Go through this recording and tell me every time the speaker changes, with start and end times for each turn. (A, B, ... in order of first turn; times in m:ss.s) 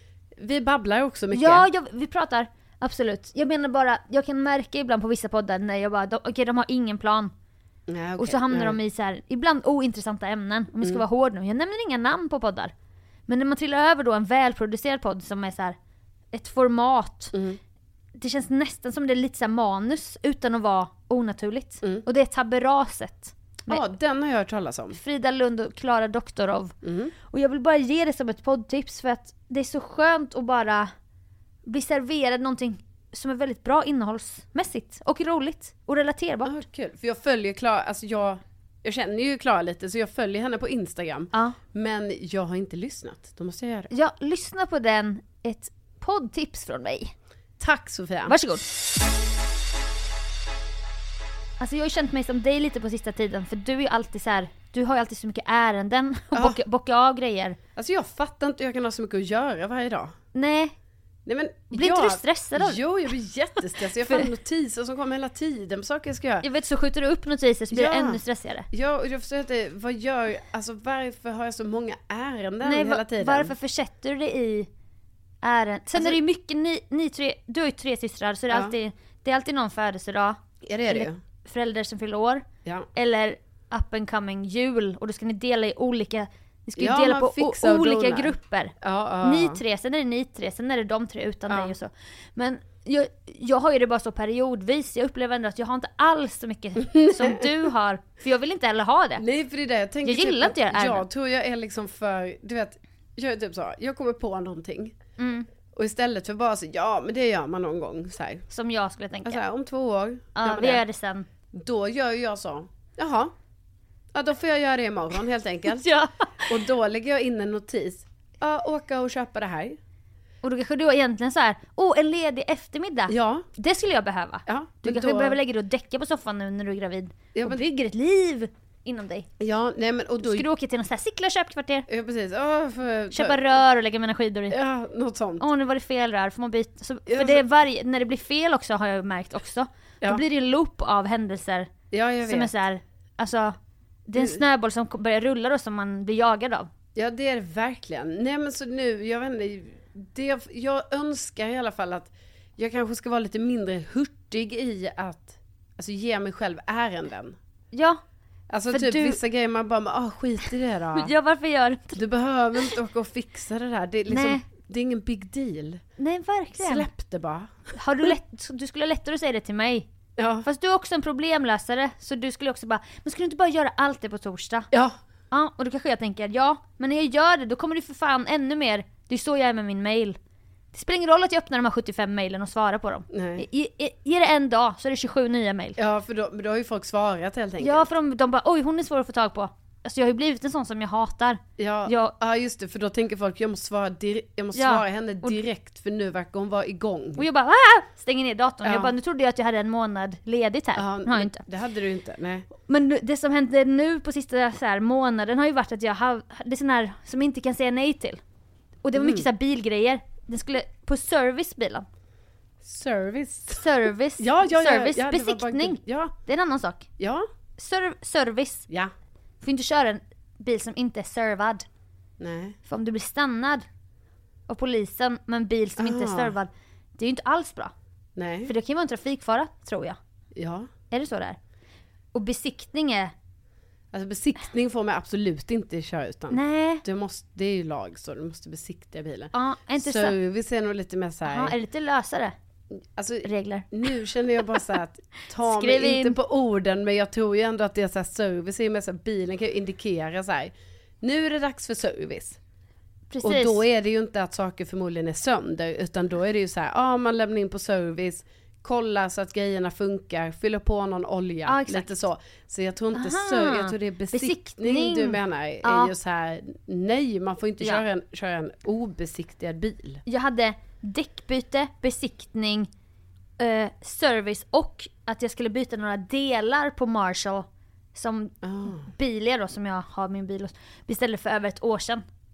0:00.4-0:01.6 A
0:01.3-0:07.3 B
0:07.9-0:08.8 A
0:08.2-0:12.7 B
0:13.3-0:15.8 B
0:16.3-0:17.3 B
0:17.3-0:17.6 A
0:18.1-0:23.8 B
0:23.7-0:25.0 A
0:24.9-0:26.7 B
0:26.8-0:27.1 A
0:27.3-0:30.9 B
0:31.6-0:36.5 B
0:36.4-0:43.9 A
0:43.9-0:47.1 B
0:47.6-0:48.3 A
0:48.3-0:48.6 B
0:51.6-0:57.6 B
0:57.8-1:00.1 A
1:00.3-1:00.7 B
1:01.2-1:06.4 A
1:01.7-1:02.8 B
1:06.4-1:08.7 B
1:07.7-1:13.5 A
1:12.6-1:14.7 B
1:15.4-1:39.2 B
1:20.6-1:21.2 A
1:26.8-1:29.6 A
1:31.5-1:31.7 A
1:36.9-1:37.4 A
1:39.2-1:44.9 A
1:40.0-1:41.0 B
1:45.2-1:45.5 B
1:45.7-1:48.4 A
1:48.5-1:49.4 B
1:49.2-1:50.8 A
1:50.3-1:51.3 B
1:51.5-1:53.3 A
1:54.1-1:55.9 A
1:55.8-1:56.5 B
1:56.5-1:59.8 A
2:00.4-2:09.3 B
2:03.1-2:03.4 A
2:04.5-2:05.4 A
2:07.3-2:07.6 A
2:09.4-2:10.5 A
2:10.2-2:11.8 B
2:11.9-2:13.4 A
2:13.1-2:14.6 B
2:14.5-2:15.4 A
2:15.4-2:21.7 B
2:17.1-2:17.4 A
2:21.9-2:22.5 A
2:22.2-2:26.7 B
2:26.9-2:37.4 A
2:37.7-2:38.0 B
2:38.5-2:41.1 A
2:38.7-2:39.2 B
2:41.0-2:42.0 B
2:41.9-2:45.8 A
2:44.1-2:44.4 B
2:46.0-2:46.9 B
2:46.6-2:48.1 A
2:47.7-2:49.9 B
2:50.2-2:50.5 A
2:50.4-2:54.7 B
2:54.7-2:55.0 A
2:55.3-3:00.2 B
3:00.7-3:05.8 B
3:03.1-3:03.4 A
3:05.8-3:07.9 A
3:07.6-3:12.1 B
3:11.6-3:17.2 A
3:14.5-3:15.4 B
3:17.2-3:21.4 B
3:18.6-3:18.9 A
3:20.8-3:22.5 A
3:22.7-3:28.2 B
3:28.8-3:31.8 B
3:29.0-3:29.3 A
3:32.6-3:33.6 A
3:33.5-3:36.9 B
3:34.2-3:36.1 A
3:37.0-3:37.3 A
3:37.6-3:38.7 B
3:39.4-3:41.6 B
3:42.2-3:42.6 A
3:42.6-3:43.6 B
3:44.5-3:47.7 B
3:45.8-3:46.3 A
3:48.2-3:48.5 A
3:48.4-3:50.0 B
3:50.4-3:50.7 A
3:50.9-3:51.4 B
3:52.1-3:53.1 B
3:53.9-4:01.5 A
3:56.3-3:56.8 B
3:59.3-4:00.2 B
4:01.2-4:02.3 B
4:03.0-4:12.4 A
4:03.2-4:03.7 B
4:05.4-4:06.2 B
4:13.1-4:13.6 B
4:13.2-4:30.0 A
4:21.4-4:21.9 B
4:22.9-4:25.9 B
4:30.0-4:32.7 B
4:33.4-4:42.0 B
4:38.4-4:38.9 A